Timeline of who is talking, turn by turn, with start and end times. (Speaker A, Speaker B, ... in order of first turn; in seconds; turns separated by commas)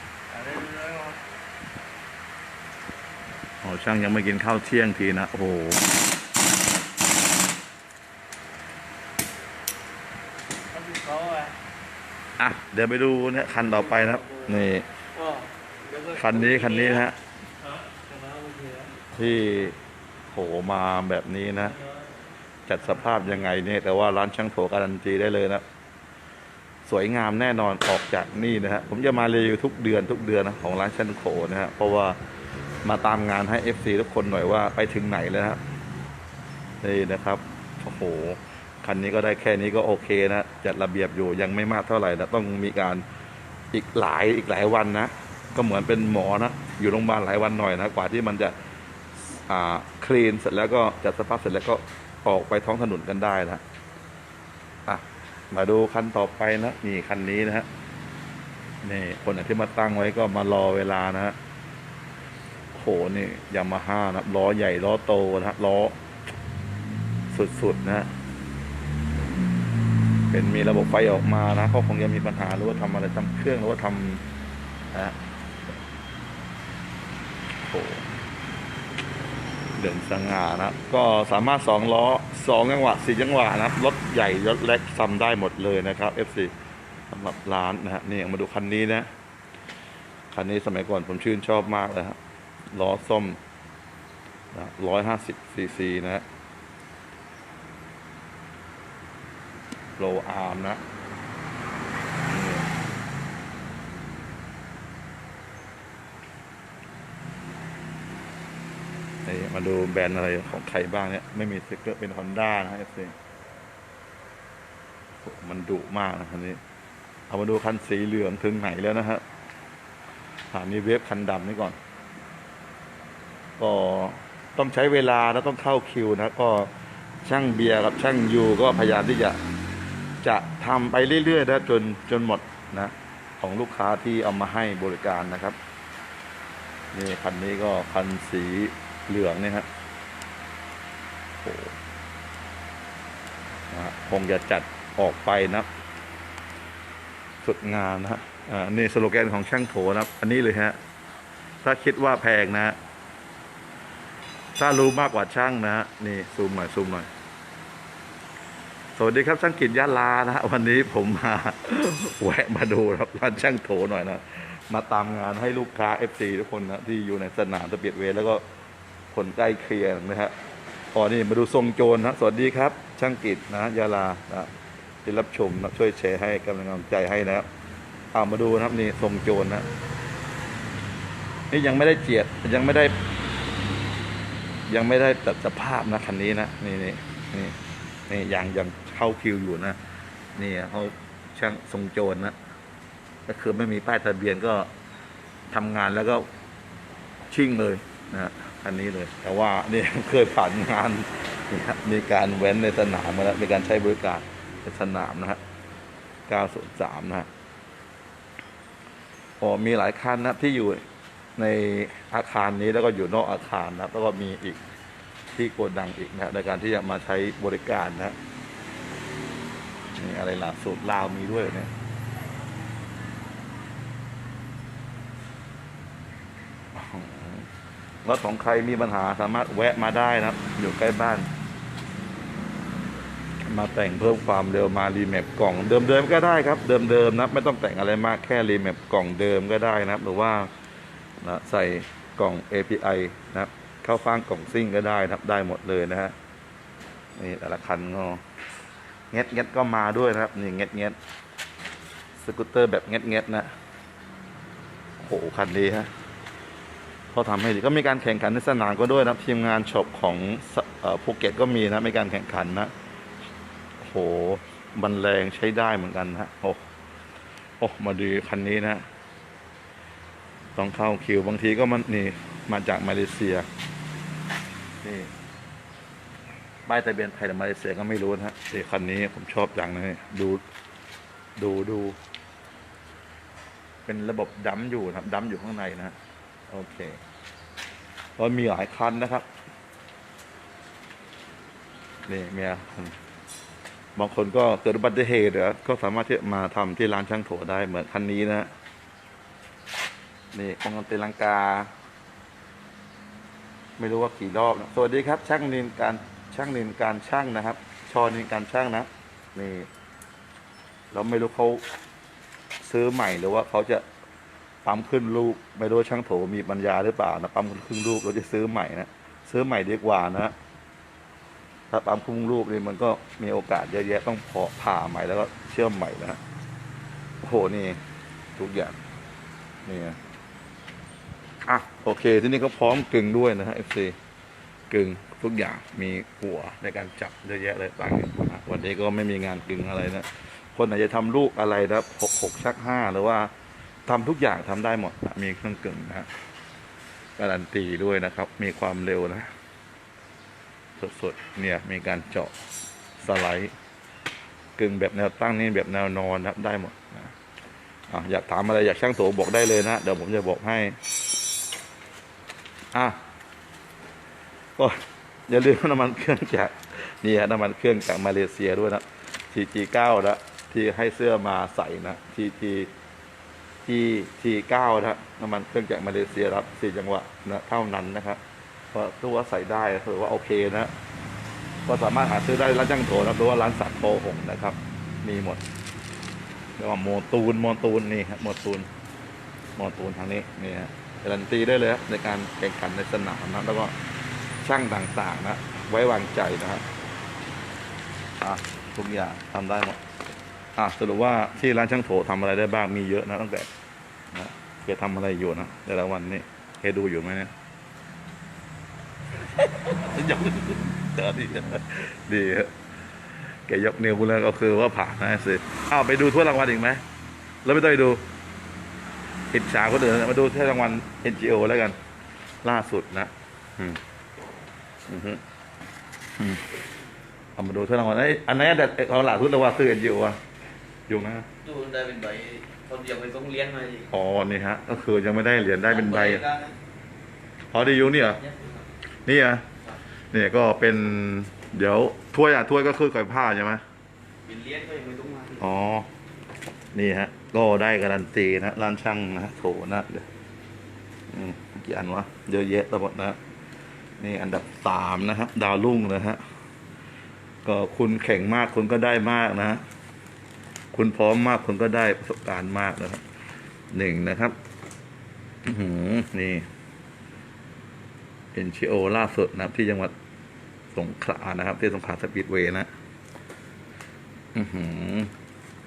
Speaker A: 0.3-1.2, Speaker B: 3.6-5.8, Speaker A: 10.7-11.5, Speaker B: 12.4-14.9, Speaker A: 13.7-17.0, Speaker B: 16.1-17.2, Speaker A: 17.6-18.9, Speaker B: 19.1-19.8, Speaker B: 20.3-21.8, Speaker A: 21.7-22.0, Speaker B: 22.7-25.6, Speaker B: 26.9-32.2, Speaker B: 32.8-35.6, Speaker B: 36.8-43.0, Speaker B: 43.7-48.5, Speaker B: 49.5-53.6, Speaker B: 54.9-57.7, Speaker B: 58.8-61.4, Speaker B: 62.7-66.0, Speaker B: 67.3-68.1, Speaker B: 70.3-74.2, Speaker B: 77.6-78.0, Speaker B: 79.8-86.5, Speaker B: 87.1-89.1, Speaker B: 90.3-92.2, Speaker B: 92.7-93.4, Speaker B: 94.5-96.2, Speaker B: 100.0-100.8, Speaker B: 102.3-102.7, Speaker B: 109.2-113.2, Speaker B: 115.2-116.6, Speaker B: 117.3-119.2, Speaker B: 120.5-121.8, Speaker B: 123.6-126.7, Speaker B: 127.2-129.4, Speaker B: 130.2-135.6, Speaker B: 136.9-139.7, Speaker B: 141.4-141.8, Speaker B: 143.7-145.7, Speaker B: 147.4-150.8, Speaker B: 151.6-152.8, Speaker B: 154.6-157.1, Speaker B: 159.0-168.4, Speaker B: 169.1-170.3, Speaker B: 170.9-174.5, Speaker B: 175.1-177.5, Speaker B: 178.1-179.7, Speaker B: 181.5-182.9, Speaker B: 184.7-187.6, Speaker B: 188.1-189.8, Speaker B: 190.4-192.4, Speaker B: 193.3-194.7, Speaker B: 195.5-196.3, Speaker B: 197.3-205.4, Speaker B: 206.3-207.3, Speaker B: 209.4-210.8, Speaker B: 211.4-214.6, Speaker B: 215.3-218.2, Speaker B: 219.9-221.7, Speaker B: 226.7-227.5, Speaker B: 228.0-231.3, Speaker B: 233.5-240.5, Speaker B: 241.2-246.1, Speaker B: 247.2-248.2, Speaker B: 249.1-251.0, Speaker B: 252.2-253.5, Speaker B: 255.0-255.9, Speaker B: 257.1-262.7, Speaker B: 263.8-266.6, Speaker B: 267.6-268.8, Speaker B: 270.6-273.5, Speaker B: 274.8-275.1, Speaker B: 276.7-280.4, Speaker B: 281.4-282.0, Speaker B: 283.9-286.0, Speaker B: 286.5-287.0, Speaker B: 288.2-289.3, Speaker B: 292.1-292.9, Speaker B: 294.0-298.5, Speaker B: 300.3-301.7, Speaker B: 303.8-309.7, Speaker B: 310.9-311.6, Speaker B: 312.6-313.9, Speaker B: 314.6-320.3, Speaker B: 321.7-326.2, Speaker B: 327.2-327.8, Speaker B: 328.4-328.8, Speaker B: 329.6-330.0, Speaker B: 331.4-334.0, Speaker B: 334.7-343.3, Speaker B: 343.9-346.1, Speaker B: 347.2-349.3, Speaker B: 350.8-352.3, Speaker B: 353.0-353.5, Speaker B: 354.6-357.1, Speaker B: 357.9-360.8, Speaker B: 362.7-363.0, Speaker B: 364.6-372.7, Speaker B: 373.7-378.2, Speaker B: 378.7-380.7, Speaker B: 381.6-385.4, Speaker B: 386.6-388.7, Speaker B: 389.6-393.7, Speaker B: 394.4-396.6, Speaker B: 398.2-399.8, Speaker B: 400.6-403.5, Speaker B: 404.1-407.3, Speaker B: 409.4-412.5, Speaker B: 413.5-416.8, Speaker B: 417.4-418.1, Speaker B: 419.3-421.8, Speaker B: 422.4-423.8, Speaker B: 424.9-425.2, Speaker B: 426.2-426.4, Speaker B: 427.4-430.2, Speaker B: 430.9-431.3, Speaker C: 431.4-433.9, Speaker B: 433.9-436.2, Speaker C: 435.6-436.6, Speaker B: 437.5-438.2, Speaker C: 438.2-438.6, Speaker B: 439.1-439.4, Speaker B: 440.1-443.6, Speaker C: 444.2-445.4, Speaker B: 445.4-445.9, Speaker B: 446.7-450.1, Speaker B: 451.1-453.2, Speaker B: 454.0-456.2, Speaker B: 457.4-459.6, Speaker B: 460.7-463.0, Speaker B: 463.7-464.4, Speaker B: 465.4-466.5, Speaker B: 468.3-469.9, Speaker B: 470.7-472.7, Speaker B: 474.4-475.1